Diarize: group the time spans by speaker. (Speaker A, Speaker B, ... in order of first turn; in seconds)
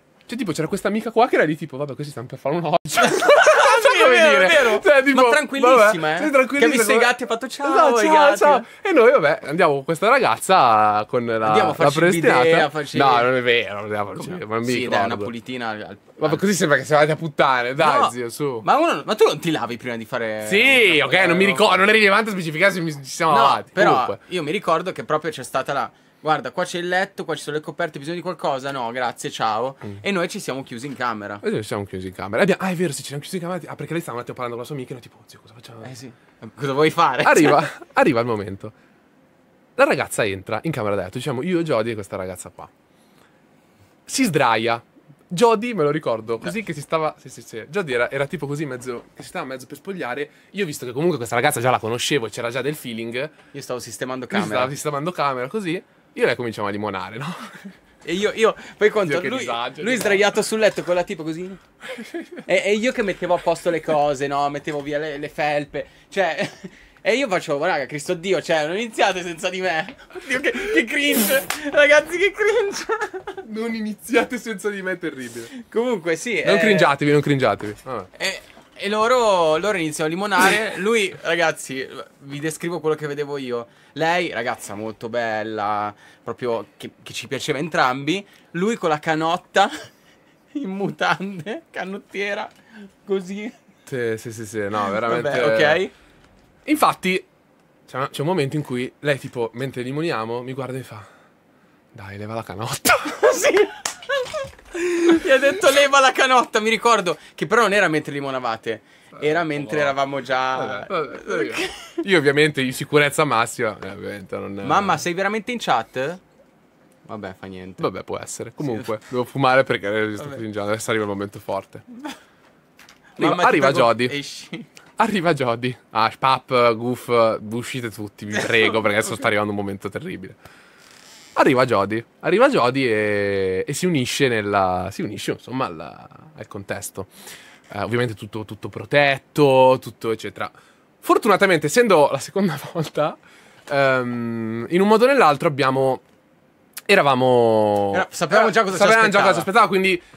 Speaker A: 0.3-15.3, 16.2-18.6, 20.4-24.2, 31.4-35.9, 37.2-38.7, 39.8-42.7, 44.1-53.3, 54.3-57.7, 59.0-60.2, 61.9-62.4, 73.4-75.5, 76.4-78.1, 93.8-95.8, 96.7-97.3, 97.9-101.0, 101.9-103.4, 109.2-110.0, 110.5-115.0, 117.8-121.8, 123.2-124.1, 125.0-130.3, 131.3-137.1, 137.7-146.0, 146.9-150.0
Speaker B: 3.0-8.6, 11.4-13.3, 14.2-16.4, 17.8-21.8, 23.3-31.4, 35.8-37.6, 53.5-54.7, 58.0-61.6, 62.4-73.4, 75.5-76.9, 78.1-89.7, 90.5-93.6, 94.9-95.9, 103.2-112.0, 114.6-116.2, 117.0-117.9, 118.6-118.9, 123.2-124.7, 128.3-128.8, 147.9-149.5